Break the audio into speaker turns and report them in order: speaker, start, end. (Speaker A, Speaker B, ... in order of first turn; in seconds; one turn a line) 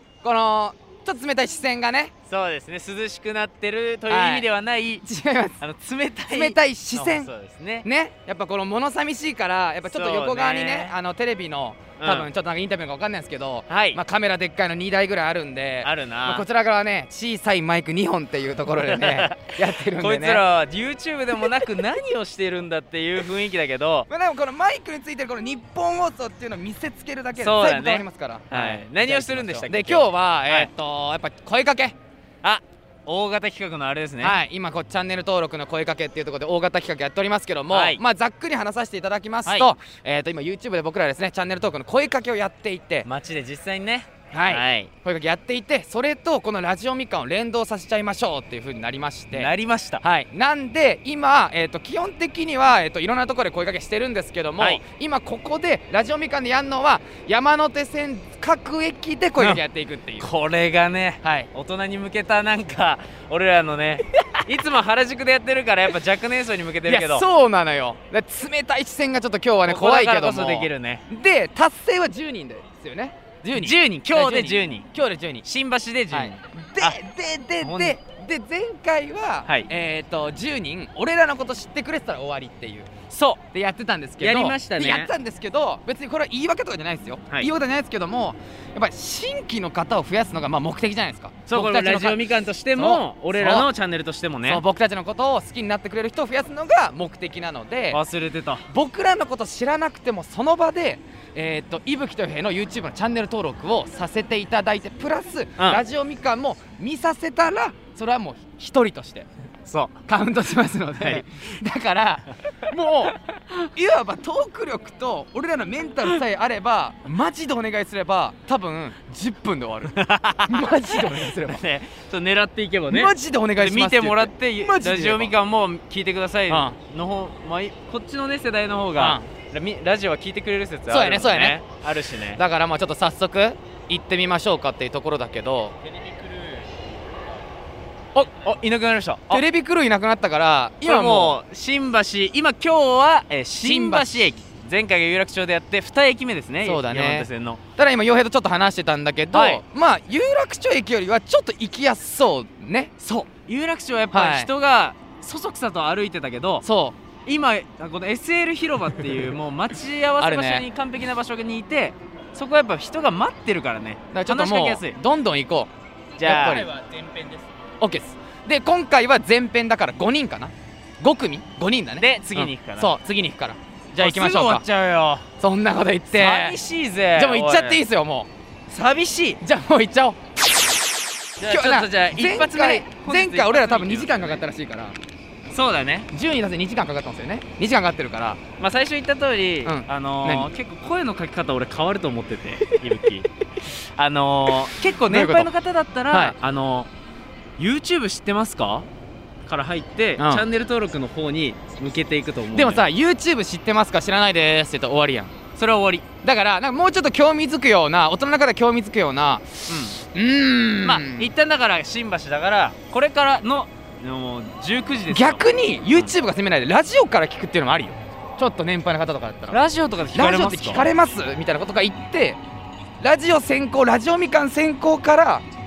Speaker A: 0.2-2.1
Speaker B: 2.3-5.0
Speaker A: 4.1-4.5
Speaker A: 5.0-5.6
Speaker B: 5.6-7.8
Speaker A: 6.3-7.3
Speaker A: 7.8-20.4
Speaker B: 9.9-10.9
Speaker B: 12.0-12.3
Speaker B: 13.7-14.0
Speaker B: 15.8-16.4
Speaker B: 18.8-24.1
Speaker A: 24.1-31.9
Speaker B: 27.4-30.7
Speaker B: 32.4-34.4
Speaker A: 34.2-43.1
Speaker B: 37.7-38.0
Speaker B: 43.0-44.9
Speaker A: 44.3-49.5
Speaker B: 49.3-50.0
Speaker A: 50.0-60.3
Speaker B: 60.2-67.2
Speaker A: 61.2-61.5
Speaker A: 66.8-75.5
Speaker B: 69.7-71.0
Speaker B: 73.5-74.9
Speaker B: 75.4-77.0
Speaker A: 76.1-93.7
Speaker B: 77.6-78.0
Speaker B: 83.1-83.4
Speaker B: 84.2-85.1
Speaker B: 91.5-94.6
Speaker A: 94.4-98.0
Speaker B: 97.9-98.7
Speaker A: 98.7-109.3
Speaker B: 109.6-110.0
Speaker A: 110.1-121.6
Speaker B: 119.9-132.4
Speaker A: 122.9-125.3
Speaker A: 126.5-126.8
Speaker A: 128.9-129.3
Speaker A: 130.9-131.6
Speaker A: 132.3-135.8
Speaker B: 138.3-139.4
Speaker A: 139.3-141.4
Speaker B: 140.8-147.6
Speaker A: 143.6-144.3
Speaker A: 146.6-153.1
Speaker B: 149.3-149.6
Speaker B: 153.1-156.7
Speaker A: 154.1-154.5
Speaker A: 156.6-157.0
Speaker B: 157.2-165.0
Speaker A: 160.2-160.7
Speaker A: 164.1-166.7
Speaker B: 166.2-167.4
Speaker A: 167.8-174.7
Speaker B: 172.0-172.9
Speaker B: 173.9-175.3
Speaker A: 175.4-176.6
Speaker B: 176.1-177.8
Speaker A: 177.1-178.3
Speaker B: 178.7-179.4
Speaker A: 179.4-180.3
Speaker A: 181.4-184.9
Speaker B: 181.4-184.4
Speaker B: 185.5-186.1
Speaker A: 186.1-188.4
Speaker B: 188.6-193.3
Speaker A: 189.6-190.5
Speaker B: 193.9-196.9
Speaker A: 195.1-195.5
Speaker A: 196.1-196.3
Speaker B: 197.6-198.9
Speaker B: 199.4-202.9
Speaker A: 200.2-200.4
Speaker A: 202.5-205.3
Speaker B: 205.6-206.0
Speaker A: 206.2-211.3
Speaker B: 209.7-210.0
Speaker B: 210.8-216.1
Speaker A: 215.1-222.4
Speaker B: 219.5-220.9
Speaker A: 223.0-225.4